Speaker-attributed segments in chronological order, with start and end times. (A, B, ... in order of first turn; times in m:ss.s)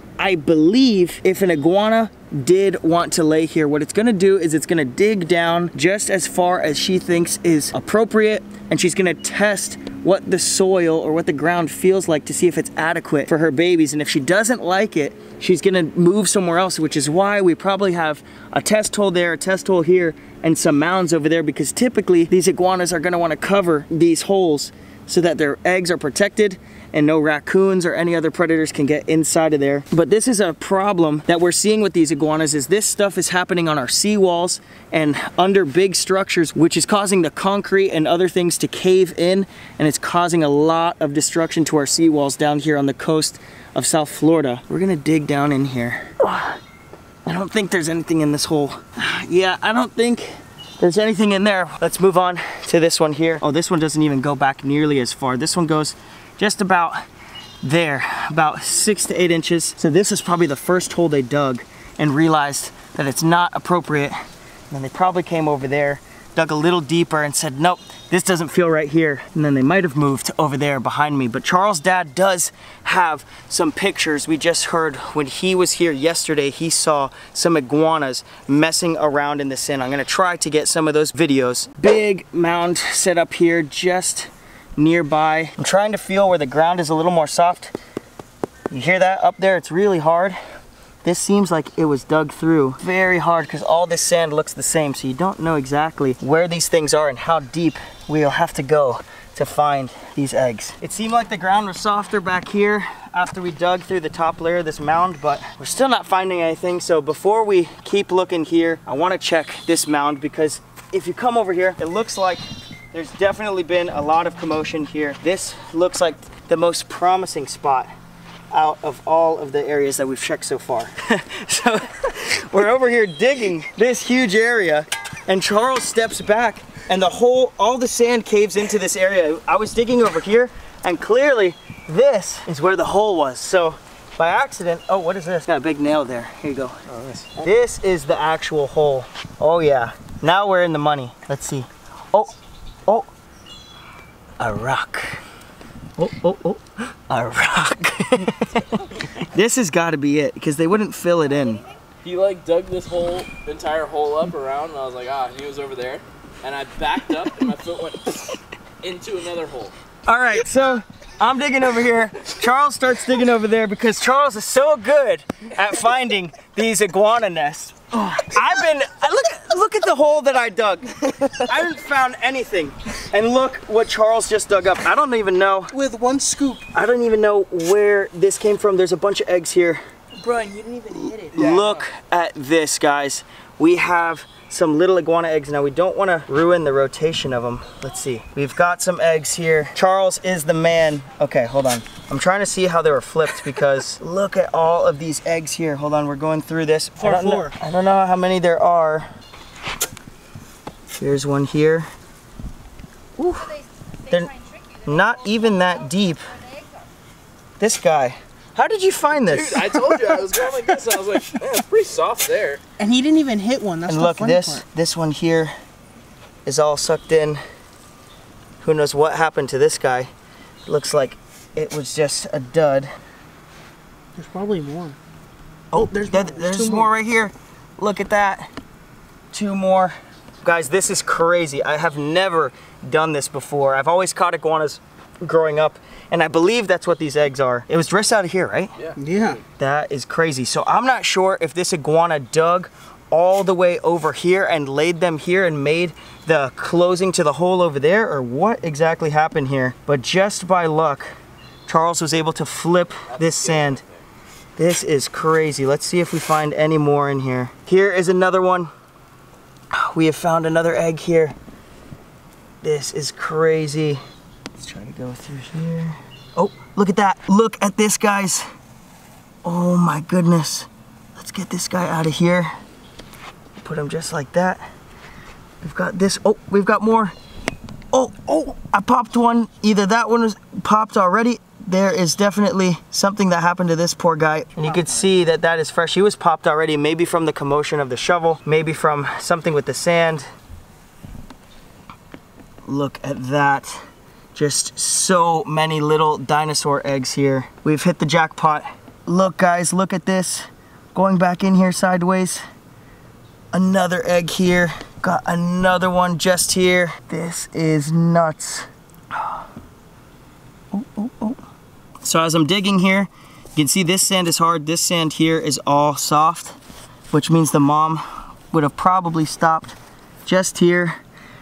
0:00.2-0:46.5 A
0:47.2-0:57.0 A
0:57.6-1:04.2 A
1:04.7-1:27.7 A
1:28.7-1:30.4 A
1:31.0-1:57.9 A
1:58.5-2:22.3 A
2:24.4-2:25.2 A
2:26.0-2:31.7 A
2:32.0-2:39.7 B
2:40.1-2:55.8 A
2:55.7-2:56.7 C
2:56.7-2:59.8 A
3:00.2-3:01.8 C
3:01.3-3:19.1 A
3:17.0-3:17.6 C
3:21.0-3:21.9 A
3:23.2-3:23.5 A
3:24.1-3:26.6 A
3:27.6-3:29.7 A
3:29.2-3:32.6 B
3:32.8-3:34.6 C
3:33.9-3:35.5 A
3:36.5-3:37.4 A
3:38.6-3:40.1 A
3:40.7-3:42.9 A
3:44.2-3:45.0 C
3:45.7-3:48.5 A
3:45.8-3:46.9 C
3:49.3-3:58.8 A
3:58.8-3:59.4 B
3:59.0-3:59.4 C
3:59.6-4:11.1 A
4:11.7-4:13.8 A
4:13.0-4:14.0 B
4:14.6-4:18.7 A
4:19.8-4:21.4 A
4:22.6-4:24.0 A
4:24.6-4:28.5 A
4:29.4-4:32.5 A
4:33.6-4:34.6 A
4:35.6-4:37.1 A
4:37.9-4:50.3 A
4:44.6-4:45.1 C
4:52.7-4:53.8 A
4:54.4-5:02.4 A
5:03.5-5:08.7 A
5:10.7-5:11.4 A
5:12.0-5:16.6 A
5:17.1-5:21.0 A